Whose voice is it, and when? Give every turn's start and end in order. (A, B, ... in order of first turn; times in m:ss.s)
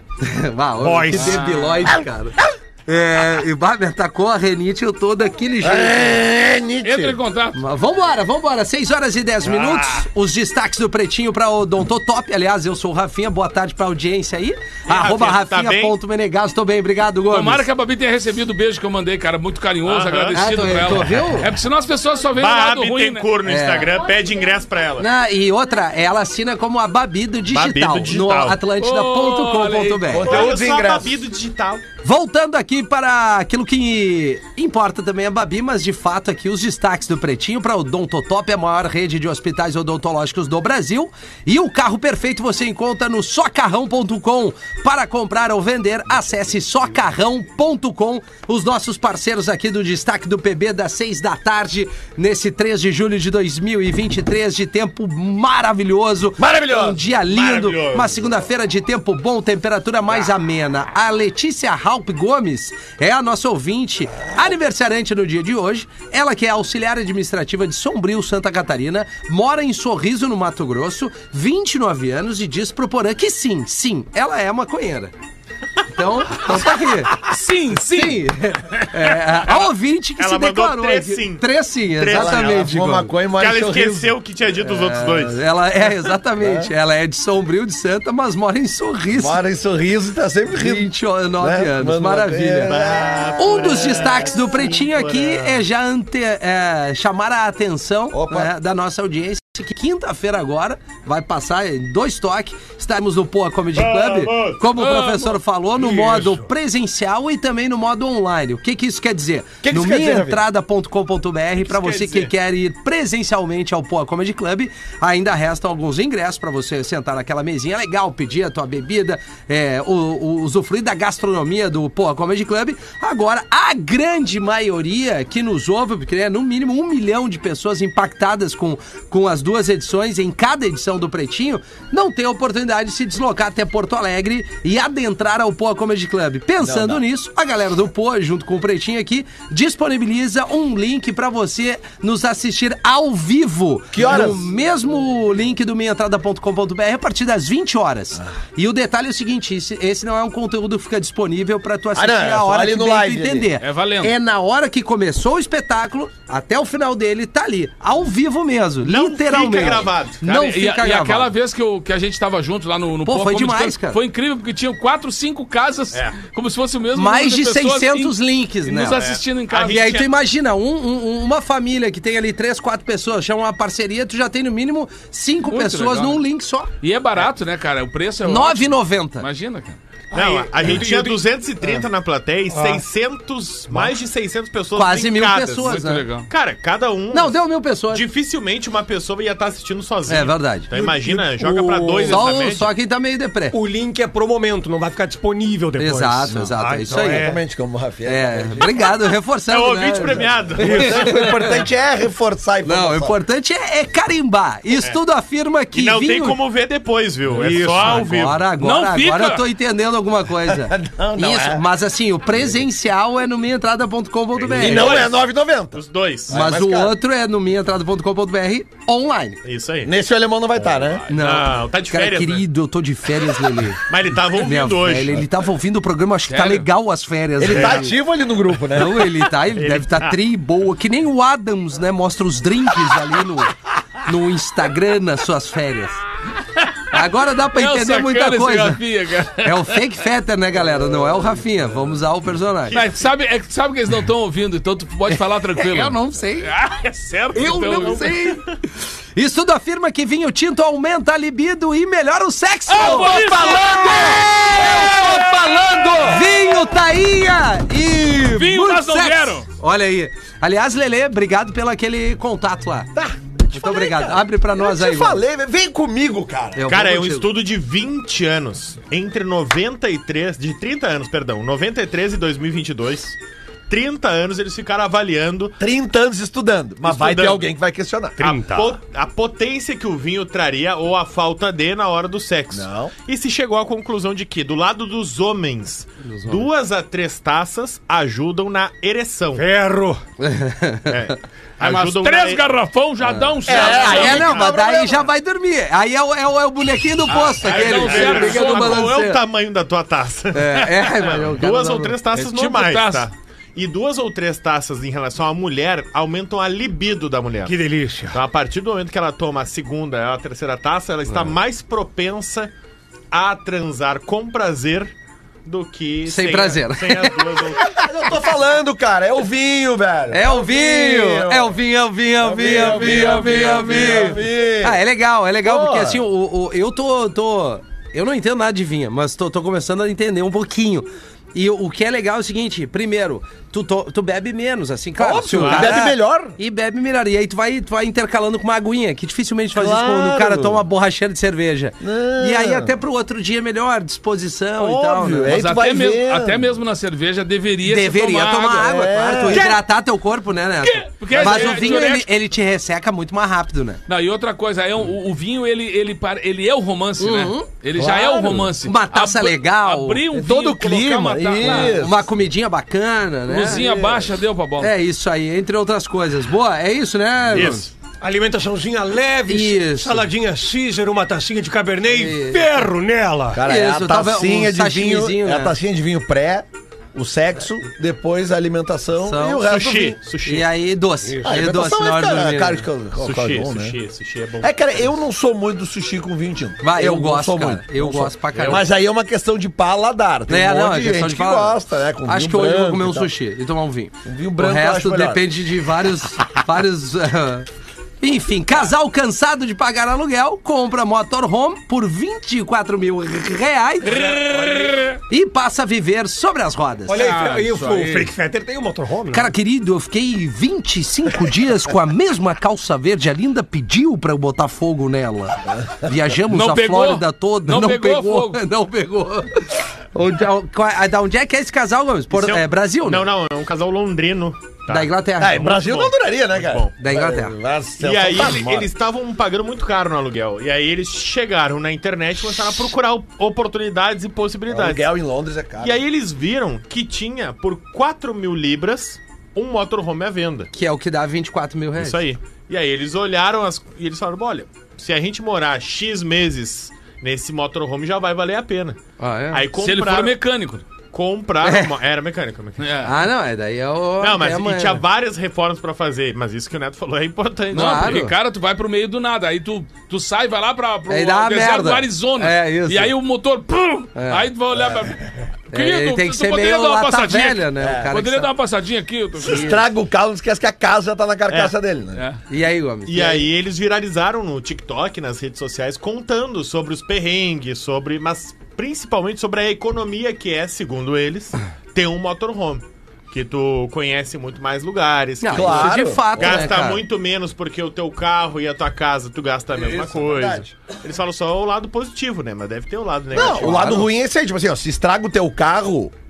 0:00.2-0:06.2 A
0:00.8-0:01.5 B
0:01.2-0:01.9 C
0:05.6-0:07.2 D
0:06.8-0:07.6 C
0:07.5-0:17.6 A
0:09.4-0:10.0 B
0:14.9-0:15.9 E
0:17.3-0:23.2 C
0:19.8-0:20.5 E
0:20.3-0:21.5 A
0:22.4-0:25.1 E
0:23.4-0:23.9 A
0:25.0-0:30.3 A
0:27.5-0:28.6 E
0:28.8-0:30.2 C
0:30.1-0:31.1 D
0:30.2-0:31.8 E
0:32.0-1:15.1 A
0:56.4-0:57.0 D
0:57.2-0:58.2 E
1:15.9-1:17.2 A
1:17.2-1:18.9 C
1:17.9-1:23.1 A
1:20.2-1:22.7 E
1:22.1-1:24.1 D
1:23.4-1:25.4 E
1:24.6-1:29.4 A
1:26.4-1:26.7 D
1:29.1-1:34.0 D
1:30.5-1:32.7 A
1:32.6-1:35.6 E
1:33.4-2:41.3 A
1:38.1-1:38.5 D
1:43.7-1:44.6 E
1:44.7-1:45.4 C
1:45.8-1:46.4 B
1:49.6-1:50.4 D
1:51.6-1:52.3 E
2:16.6-2:17.0 D
2:23.9-2:24.5 D
2:31.9-2:33.5 D
2:33.6-2:34.1 C
2:38.8-2:40.3 E
2:40.3-2:50.1 C
2:43.0-2:44.0 A
2:45.9-2:46.2 E
2:46.9-2:49.0 A
2:48.9-2:50.1 E
2:49.6-2:56.7 A
2:55.5-2:56.2 C
2:56.8-2:59.8 C
2:58.2-2:59.2 A
3:00.1-3:01.2 B
3:00.1-3:07.4 E
3:02.5-3:02.8 B
3:04.7-3:06.0 A
3:05.6-3:06.3 C
3:07.1-3:08.0 A
3:07.9-3:12.7 E
3:10.1-3:10.7 A
3:10.7-3:12.3 B
3:12.0-3:13.6 A
3:13.5-3:17.4 B
3:15.8-3:17.3 A
3:17.0-3:19.1 D
3:18.0-3:21.6 A
3:19.5-3:21.0 E
3:20.6-3:23.2 D
3:20.6-3:21.2 B
3:22.6-3:26.4 A
3:25.7-3:28.4 E
3:27.3-3:28.1 B
3:27.7-3:35.0 A
3:28.6-3:29.4 C
3:30.4-3:31.6 D
3:34.5-3:36.4 E
3:34.5-3:37.0 D
3:36.3-3:39.4 A
3:39.4-3:39.9 E
3:39.8-3:41.1 D
3:41.1-3:42.4 E
3:41.1-3:47.9 A
3:43.8-3:45.2 E
3:46.3-3:46.7 C
3:47.4-3:49.1 D
3:47.5-3:47.8 E
3:48.7-3:56.0 A
3:49.5-3:50.2 E
3:56.6-3:57.0 C
3:56.9-3:58.8 A
3:57.5-3:59.8 C
3:59.4-4:02.8 A
4:02.7-4:08.1 C
4:05.5-4:06.5 A
4:07.3-4:08.5 A
4:07.8-4:08.4 E
4:09.2-4:22.9 A
4:12.7-4:16.3 C
4:18.3-4:19.4 C
4:22.9-4:26.6 D
4:23.5-4:25.2 A
4:26.6-4:27.3 A
4:26.7-4:33.2 E
4:33.7-4:35.6 E
4:35.6-4:38.3 D
4:36.8-4:37.5 E
4:38.2-4:49.4 E
4:38.2-4:38.8 B
4:42.5-4:42.9 D
4:46.0-4:46.5 A
4:49.3-4:50.0 B
4:50.2-4:51.0 A
4:50.9-4:52.4 E
4:51.6-4:54.3 C
4:53.0-4:59.2 A
4:53.4-4:55.0 D
4:53.5-4:54.5 E
4:57.1-4:58.9 C
4:57.1-5:07.6 E
5:00.3-5:02.0 A
5:02.1-5:03.1 C
5:07.4-5:08.2 B
5:08.1-5:12.5 E
5:13.1-5:14.9 E
5:15.4-5:17.8 E
5:16.1-5:17.1 A
5:17.6-5:21.6 D
5:20.1-5:45.4 A
5:22.2-5:24.8 D
5:22.7-5:23.9 C
5:25.4-5:26.0 D
5:35.0-5:36.4 D
5:35.4-5:35.8 E
5:39.5-5:40.6 D
5:41.8-5:42.7 D
5:44.6-5:46.4 D
5:45.3-5:48.7 C
5:47.6-5:53.8 A
5:48.6-5:49.6 D
5:49.3-5:49.6 C
5:50.6-5:52.1 C
5:51.1-5:51.7 D
5:53.9-6:01.7 C
5:57.0-5:57.5 A
5:57.7-5:58.5 D
5:58.6-6:00.1 A
6:00.1-6:02.0 D
6:01.4-6:03.6 A
6:03.3-6:04.7 C
6:03.4-6:04.1 D
6:04.6-6:07.7 A
6:07.3-6:13.4 B
6:09.3-6:10.1 A
6:11.9-6:12.5 A
6:13.3-6:20.0 D
6:13.4-6:15.5 A
6:19.0-6:19.4 A
6:19.4-6:20.5 E
6:20.2-6:22.6 A
6:21.1-6:21.3 B
6:21.2-6:23.8 D
6:23.0-6:24.9 E
6:24.4-6:33.1 D
6:26.6-6:28.6 A
6:28.3-6:28.6 E
6:30.3-6:37.5 A
6:34.0-6:35.3 D
6:38.0-6:44.3 A
6:43.8-6:45.0 C
6:45.0-6:47.1 A
6:46.9-6:49.3 B
6:46.9-6:48.1 C
6:49.1-7:03.1 A
6:55.5-6:55.9 D
6:56.3-6:58.4 C
7:02.1-7:06.7 E
7:04.7-7:05.6 A
7:05.2-7:08.7 D
7:06.8-7:07.4 A
7:07.8-7:14.9 E
7:14.5-7:15.8 D
7:15.6-7:20.5 E
7:20.5-7:22.0 A
7:21.8-7:28.8 E
7:29.0-7:29.4 A
7:29.3-7:30.2 E
7:29.6-7:30.6 C
7:30.9-7:32.6 E
7:31.4-7:31.7 A
7:32.6-7:32.9 C
7:32.8-7:34.8 A
7:34.0-7:38.0 E
7:37.5-7:38.2 A
7:37.5-7:49.6 C
7:40.9-7:42.9 A
7:44.0-7:44.2 A
7:44.6-7:44.9 D
7:45.5-7:48.3 A
7:47.6-7:47.9 D
7:49.2-7:52.0 D
7:49.2-7:49.6 A
7:51.9-7:52.2 C
7:52.3-7:53.3 A
7:52.9-8:13.9 E
8:05.2-8:06.8 A
8:05.3-8:06.4 D
8:09.5-8:10.4 D
8:13.1-8:15.9 D
8:13.3-8:13.8 A